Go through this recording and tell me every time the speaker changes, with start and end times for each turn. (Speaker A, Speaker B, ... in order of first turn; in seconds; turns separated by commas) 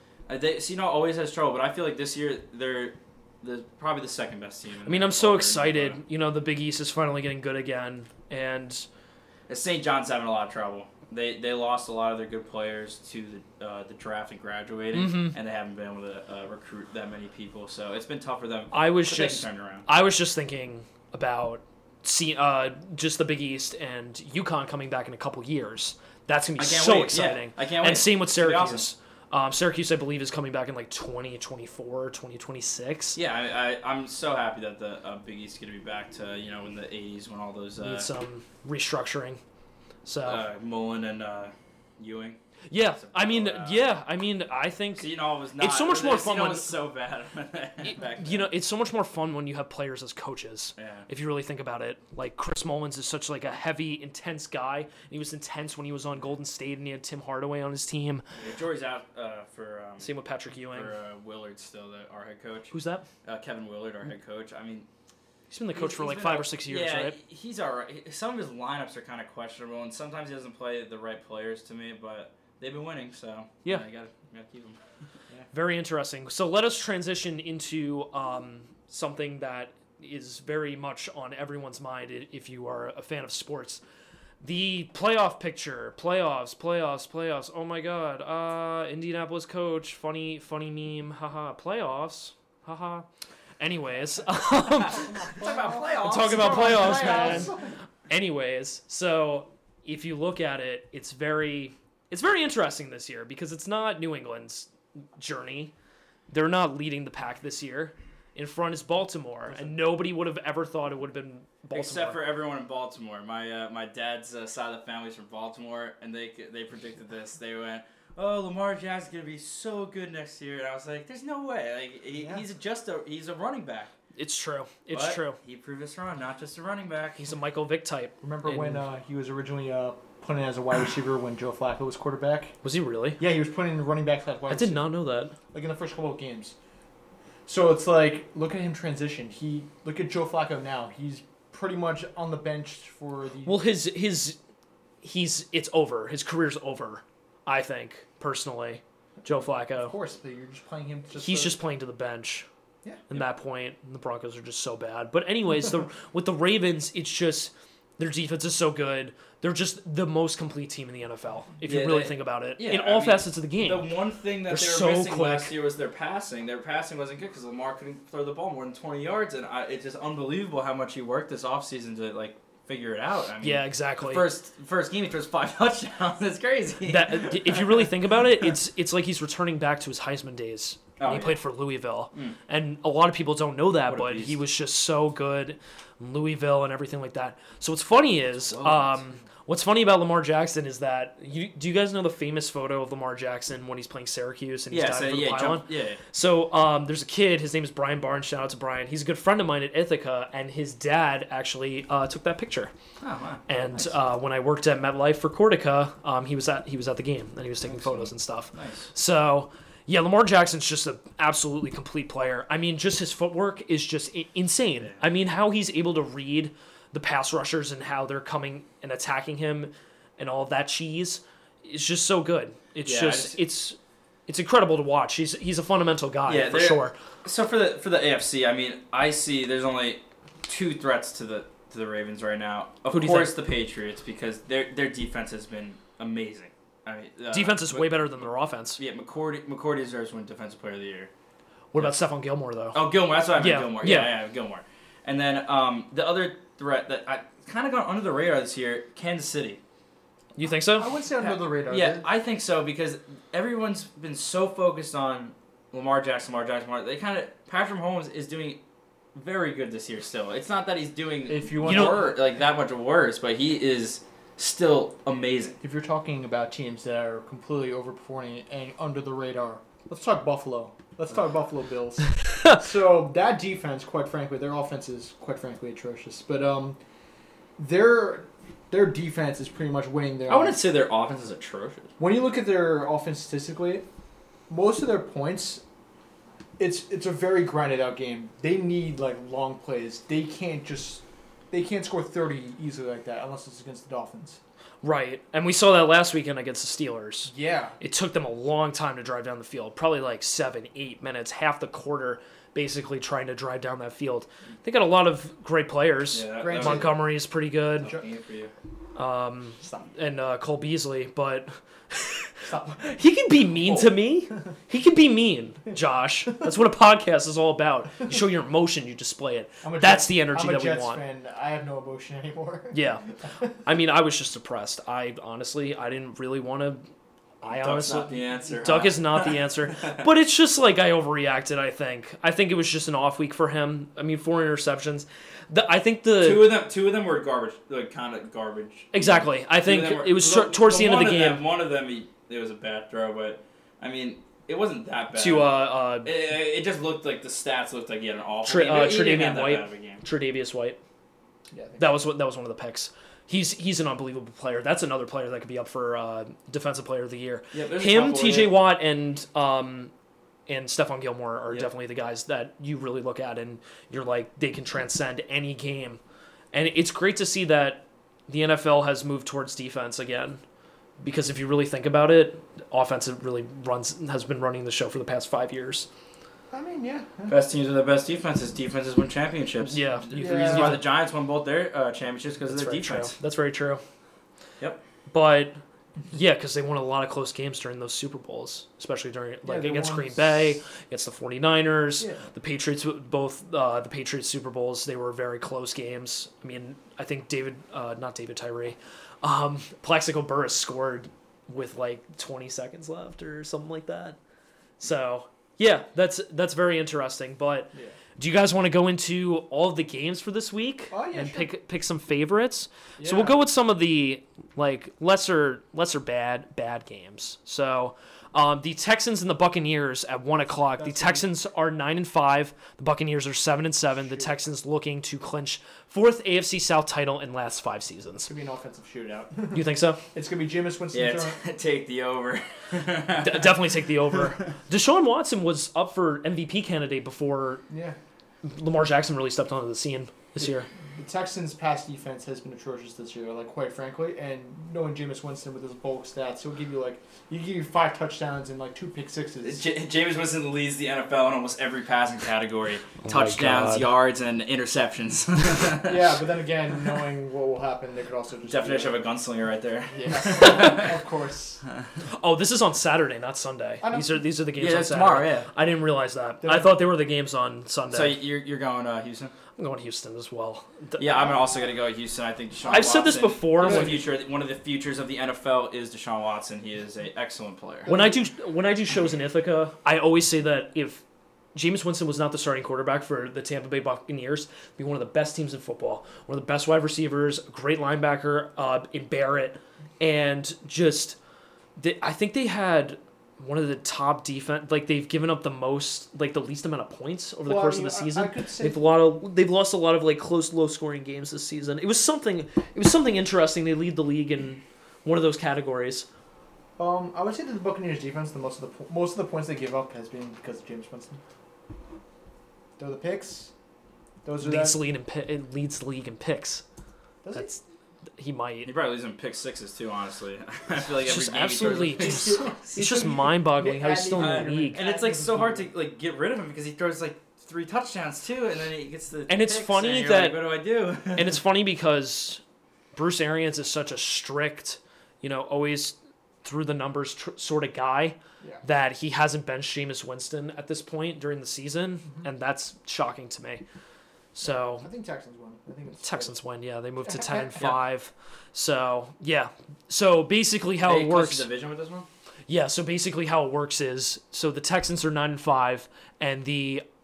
Speaker A: 0.3-6.0, Speaker B: 4.9-8.9, Speaker A: 9.5-19.9, Speaker B: 14.9-15.3, Speaker B: 18.7-33.2, Speaker A: 26.6-28.9, Speaker A: 33.2-38.1, Speaker B: 37.8-39.4, Speaker B: 40.0-40.4, Speaker A: 40.2-42.4, Speaker B: 42.7-46.7, Speaker A: 43.0-43.9, Speaker A: 45.0-48.5, Speaker B: 47.8-58.3, Speaker A: 50.8-51.1, Speaker A: 58.4-64.9, Speaker B: 60.0-61.0, Speaker B: 62.7-63.1, Speaker B: 65.5-67.2, Speaker A: 65.8-74.8, Speaker B: 75.5-83.8, Speaker B: 84.4-93.1, Speaker B: 93.6-95.3, Speaker A: 94.9-97.5, Speaker C: 95.2-97.7, Speaker B: 96.0-105.7, Speaker B: 106.3-112.2, Speaker A: 111.7-123.9, Speaker B: 124.2-125.4, Speaker A: 124.9-127.3, Speaker B: 127.2-128.8, Speaker C: 128.2-132.6, Speaker B: 132.6-133.2, Speaker C: 133.2-134.9, Speaker B: 134.5-135.3, Speaker C: 135.5-136.6, Speaker C: 137.5-143.6, Speaker B: 143.5-144.4, Speaker B: 145.0-150.0, Speaker C: 149.2-151.6, Speaker B: 151.1-152.5, Speaker B: 153.1-163.9, Speaker A: 161.6-177.9, Speaker B: 164.5-165.5, Speaker B: 173.4-174.2, Speaker B: 176.9-202.7, Speaker A: 181.0-181.4, Speaker A: 183.9-184.4, Speaker A: 188.3-189.0, Speaker A: 194.7-196.0, Speaker A: 203.0-203.4, Speaker B: 203.5-227.0, Speaker A: 207.7-208.9, Speaker A: 222.9-223.4, Speaker A: 226.3-238.2, Speaker B: 232.9-233.4, Speaker B: 237.3-238.8, Speaker A: 238.8-241.1, Speaker B: 241.7-242.8, Speaker A: 242.7-249.6, Speaker B: 243.4-244.2, Speaker B: 250.4-250.9, Speaker C: 250.7-252.1, Speaker A: 251.2-258.6, Speaker A: 259.1-265.6, Speaker C: 261.3-262.2, Speaker B: 261.6-262.0, Speaker C: 265.6-276.8, Speaker C: 277.6-280.6, Speaker A: 280.3-281.9, Speaker C: 282.0-283.9, Speaker C: 284.5-285.6, Speaker C: 286.6-294.4, Speaker B: 294.8-308.0, Speaker C: 297.3-297.8, Speaker A: 306.1-307.0, Speaker C: 306.4-307.0, Speaker A: 307.8-308.5, Speaker B: 309.0-321.0, Speaker C: 312.4-312.9, Speaker C: 319.6-322.8, Speaker B: 322.7-323.1, Speaker B: 323.6-326.8, Speaker B: 327.4-336.5, Speaker A: 327.5-330.1, Speaker A: 336.2-350.0, Speaker B: 338.9-341.4, Speaker B: 345.1-346.1, Speaker B: 348.4-350.8, Speaker C: 351.5-351.9, Speaker B: 351.8-359.9, Speaker A: 357.5-358.6, Speaker B: 360.5-366.0, Speaker B: 366.5-370.4, Speaker B: 371.0-375.9, Speaker C: 376.5-377.4, Speaker A: 377.3-383.1, Speaker B: 379.6-380.8, Speaker C: 380.1-380.8, Speaker B: 382.5-383.8, Speaker B: 385.1-404.2, Speaker C: 389.4-390.6, Speaker C: 392.0-392.3, Speaker B: 404.8-428.3, Speaker C: 410.9-411.5, Speaker C: 413.0-413.4, Speaker C: 420.6-421.3, Speaker C: 424.1-424.4, Speaker C: 428.3-431.4, Speaker B: 429.5-430.0, Speaker A: 430.9-433.6, Speaker B: 433.2-437.6, Speaker C: 437.7-438.0, Speaker B: 438.4-440.7, Speaker C: 440.4-449.6, Speaker A: 449.4-456.1, Speaker B: 453.0-453.9, Speaker C: 455.8-459.1, Speaker A: 458.5-461.0, Speaker C: 459.9-461.6, Speaker B: 462.1-468.2, Speaker C: 463.8-464.2, Speaker A: 464.6-465.5, Speaker C: 466.4-466.8, Speaker A: 467.9-469.3, Speaker B: 469.6-471.1, Speaker A: 471.0-477.9, Speaker B: 472.6-474.0, Speaker C: 472.7-474.0, Speaker C: 477.9-478.2, Speaker B: 477.9-481.0, Speaker B: 481.6-491.2, Speaker B: 491.8-506.1, Speaker C: 497.5-498.9, Speaker C: 506.8-511.2, Speaker C: 512.8-513.5, Speaker C: 514.2-514.8, Speaker B: 514.4-516.6, Speaker C: 517.2-517.6, Speaker B: 517.3-517.6, Speaker B: 518.2-518.7, Speaker A: 518.6-522.6, Speaker B: 521.0-524.8, Speaker C: 521.6-525.7, Speaker A: 524.1-531.4, Speaker B: 529.3-530.4, Speaker B: 531.1-532.4, Speaker B: 532.9-543.6, Speaker B: 544.4-544.9, Speaker C: 544.8-546.4, Speaker B: 546.0-551.5, Speaker C: 547.0-547.6, Speaker A: 550.8-552.1, Speaker B: 552.5-556.9